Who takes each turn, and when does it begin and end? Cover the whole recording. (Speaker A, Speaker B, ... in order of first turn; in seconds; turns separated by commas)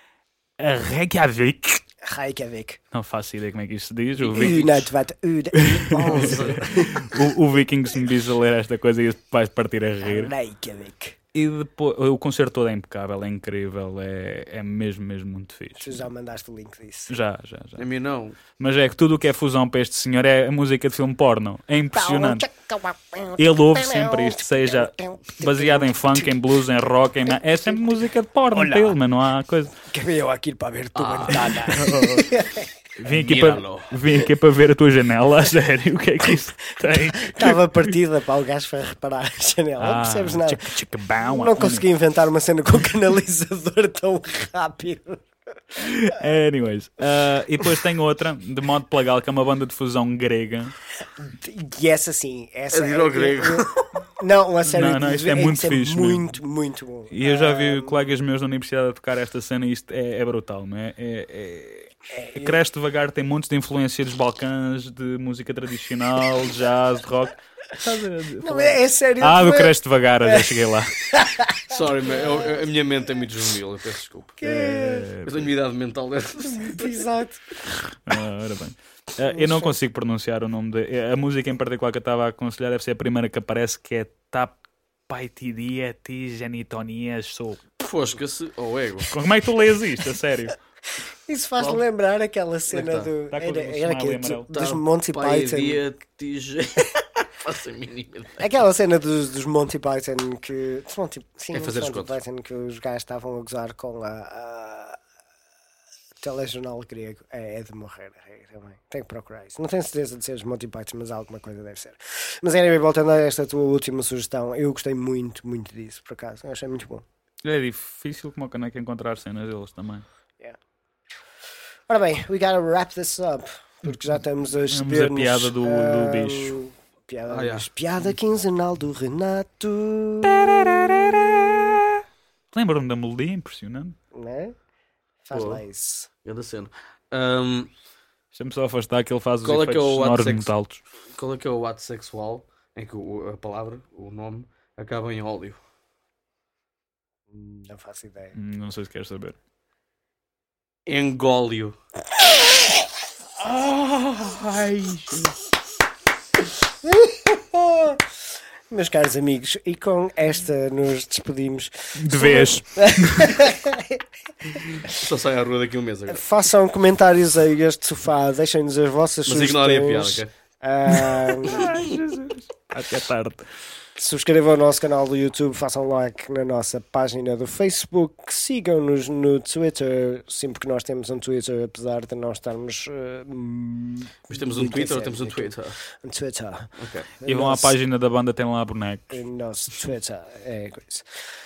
Speaker A: 0.6-1.8, Speaker B: 2.0-2.8, Speaker A: 2.9-4.9, Speaker B: 4.2-7.1, Speaker A: 5.5-10.3, Speaker C: 6.0-6.9, Speaker B: 10.0-11.2, Speaker A: 11.3-16.1, Speaker B: 15.8-17.2, Speaker A: 17.1-17.9, Speaker C: 17.8-18.4, Speaker A: 18.6-22.5, Speaker B: 21.9-26.4, Speaker A: 23.4-29.7, Speaker B: 27.3-28.0, Speaker B: 28.5-29.0, Speaker B: 29.9-32.7, Speaker C: 30.9-31.5, Speaker A: 31.4-32.3, Speaker A: 33.0-37.6, Speaker C: 33.1-34.0, Speaker B: 37.1-45.2, Speaker A: 39.8-41.9, Speaker A: 45.8-50.7, Speaker B: 51.2-58.1, Speaker C: 52.7-53.9, Speaker A: 54.7-56.3, Speaker A: 57.1-71.0, Speaker B: 62.1-62.6, Speaker B: 68.4-72.6, Speaker C: 71.7-74.5, Speaker B: 74.4-75.1, Speaker A: 74.4-75.5, Speaker C: 75.2-77.0, Speaker B: 76.4-77.4, Speaker A: 78.0-84.6, Speaker B: 79.3-79.8, Speaker A: 85.1-87.6, Speaker C: 87.8-89.1, Speaker A: 89.1-90.5, Speaker B: 91.3-95.8, Speaker C: 92.7-93.1, Speaker A: 93.3-94.5, Speaker C: 94.5-98.5, Speaker B: 98.4-105.0, Speaker C: 101.5-102.2, Speaker B: 106.2-117.0, Speaker A: 117.4-120.0, Speaker B: 121.9-131.7, Speaker A: 124.7-126.6, Speaker C: 127.3-127.7, Speaker A: 130.2-132.0, Speaker A: 132.5-133.9, Speaker B: 134.1-134.5, Speaker B: 135.2-136.1, Speaker C: 135.3-135.6, Speaker C: 136.2-137.7, Speaker A: 138.3-140.8, Speaker C: 139.4-140.5, Speaker C: 141.1-145.6, Speaker B: 147.3-148.3, Speaker A: 148.3-149.3, Speaker C: 150.8-151.8, Speaker A: 153.5-155.3, Speaker B: 156.6-158.0, Speaker B: 158.7-165.1, Speaker A: 162.0-163.4, Speaker C: 164.5-166.2, Speaker B: 166.1-171.7, Speaker C: 169.2-170.3, Speaker A: 171.2-173.4, Speaker C: 171.6-171.9, Speaker B: 174.0-187.7, Speaker C: 184.3-185.8, Speaker C: 186.8-187.1, Speaker A: 187.3-189.2, Speaker B: 189.1-191.1